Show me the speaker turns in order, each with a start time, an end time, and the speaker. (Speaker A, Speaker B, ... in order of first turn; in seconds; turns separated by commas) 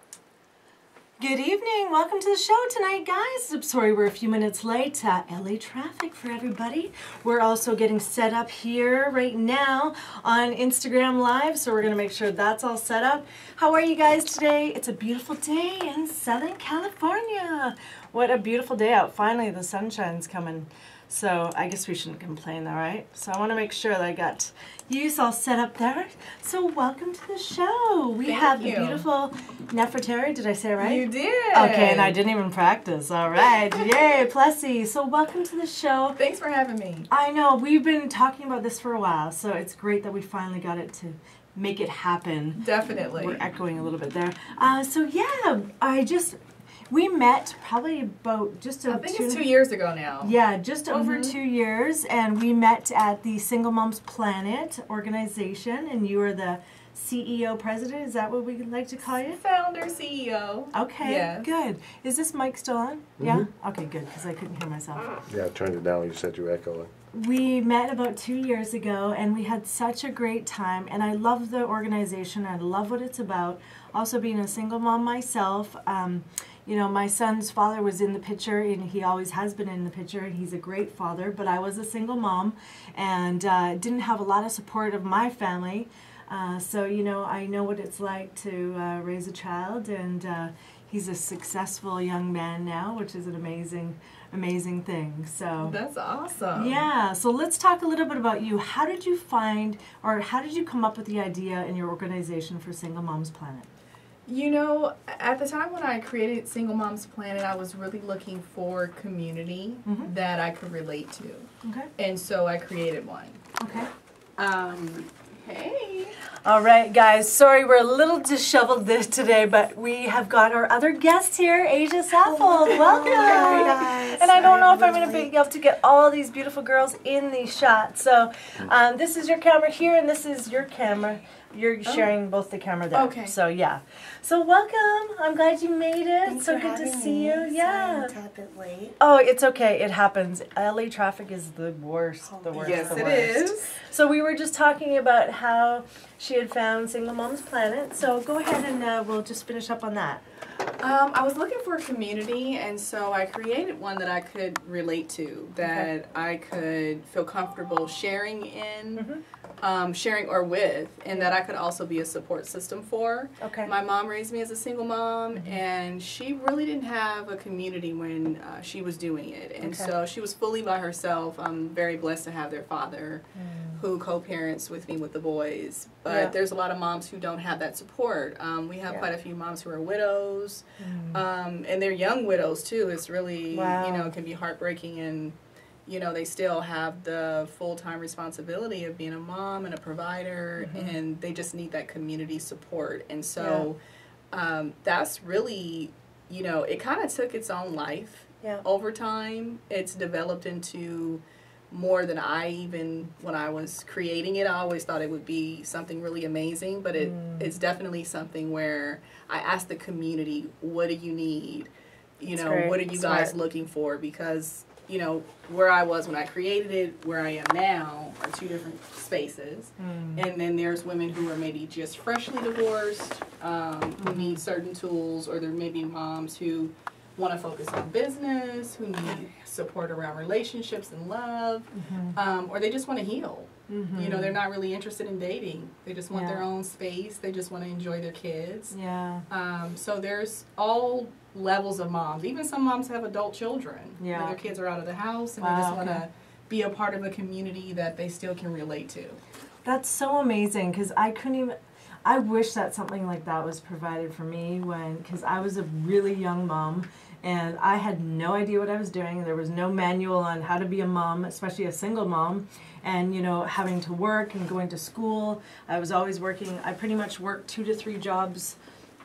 Speaker A: 1.2-36.2, Speaker B: 28.2-29.1, Speaker B: 30.8-32.2, Speaker B: 36.2-37.1, Speaker A: 37.1-46.4, Speaker B: 42.6-43.4, Speaker A: 46.9-49.5, Speaker B: 48.9-50.4, Speaker A: 50.2-59.4, Speaker B: 50.9-51.4, Speaker B: 59.3-61.5, Speaker A: 60.7-65.2, Speaker C: 63.2-63.5, Speaker C: 65.3-66.9, Speaker A: 67.1-95.8, Speaker B: 95.6-96.8, Speaker A: 96.5-103.7, Speaker B: 104.3-113.4, Speaker A: 111.6-111.9, Speaker A: 113.6-113.9, Speaker B: 114.4-116.2, Speaker A: 116.4-138.1, Speaker D: 122.2-125.3, Speaker B: 122.7-123.8, Speaker B: 131.8-132.1, Speaker B: 132.9-133.4, Speaker D: 136.2-139.0, Speaker A: 139.0-150.2, Speaker D: 142.2-143.3, Speaker B: 142.6-143.8, Speaker B: 150.8-159.1, Speaker A: 155.6-155.9, Speaker A: 159.0-159.2, Speaker B: 159.6-173.2, Speaker A: 163.4-163.7, Speaker A: 169.6-169.9, Speaker A: 173.4-173.8, Speaker B: 173.8-193.8, Speaker A: 176.1-176.3, Speaker A: 180.8-181.2, Speaker A: 183.5-184.1, Speaker A: 190.6-191.0, Speaker A: 193.4-193.7, Speaker B: 194.3-238.8, Speaker A: 207.0-207.5, Speaker A: 212.3-213.4, Speaker A: 219.8-220.2, Speaker A: 224.0-224.4, Speaker A: 231.8-232.2, Speaker A: 233.7-234.4, Speaker A: 236.1-236.4, Speaker A: 238.7-239.2, Speaker B: 239.3-249.2, Speaker A: 244.0-244.4, Speaker A: 245.4-246.0, Speaker A: 249.6-268.6